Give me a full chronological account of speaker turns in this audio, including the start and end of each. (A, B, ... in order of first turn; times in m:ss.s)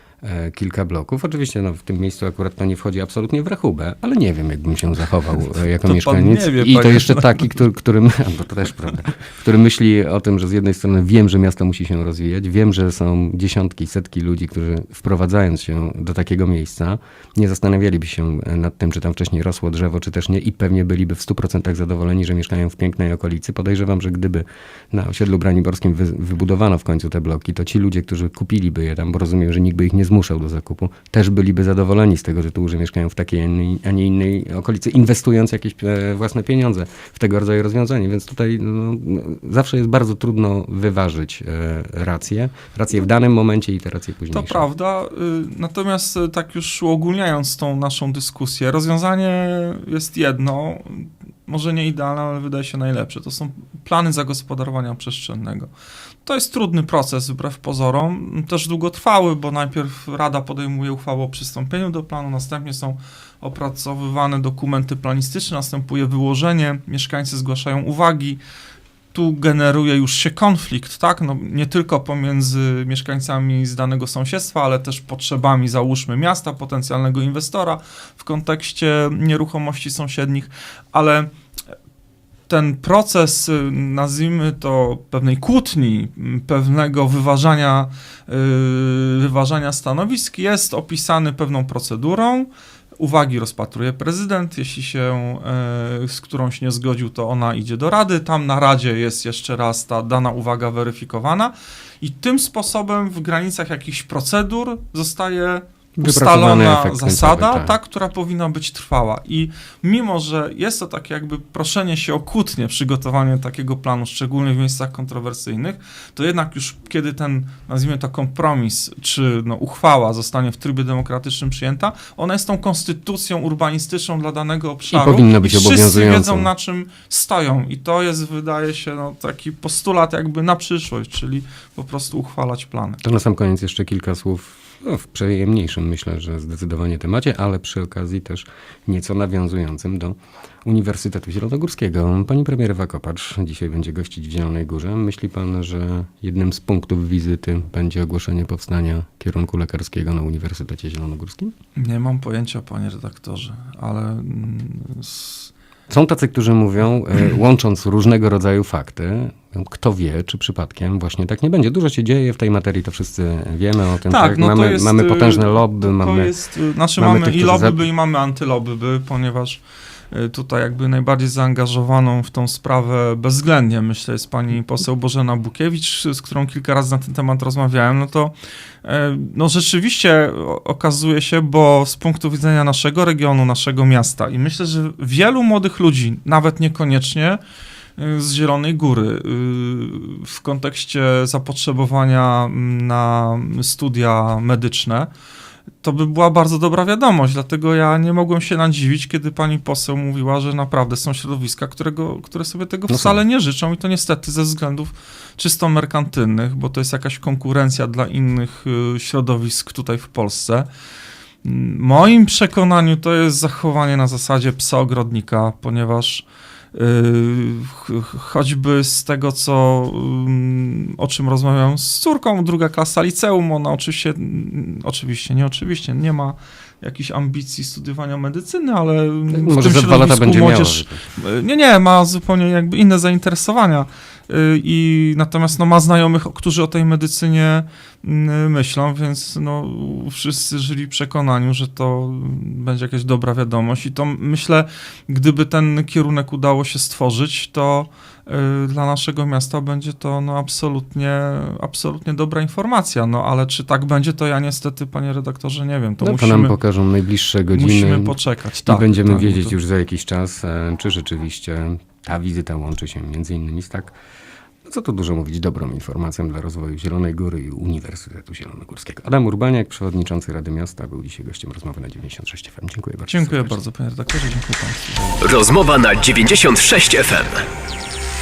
0:00.2-0:44.6 A
0:05.8-0:07.6 B
0:44.3-0:55.7 B
0:56.2-1:08.4 B
1:09.1-1:21.3 B
1:22.5-2:13.0 B
1:46.0-1:47.7 A
2:04.9-2:06.5 A
2:13.0-2:31.5 A
2:31.8-2:35.5 B
2:35.9-2:46.3 A
2:44.1-3:07.4 B
2:47.0-2:47.8 A
3:08.0-3:15.1 B
3:15.8-3:30.7 B
3:22.9-3:23.2 A
3:31.4-4:16.6 B
3:49.3-3:51.0 A
4:16.0-4:24.0 A
4:17.5-4:19.6 B
4:24.6-4:33.6 A
4:33.1-4:35.2 B
4:35.2-4:37.5 C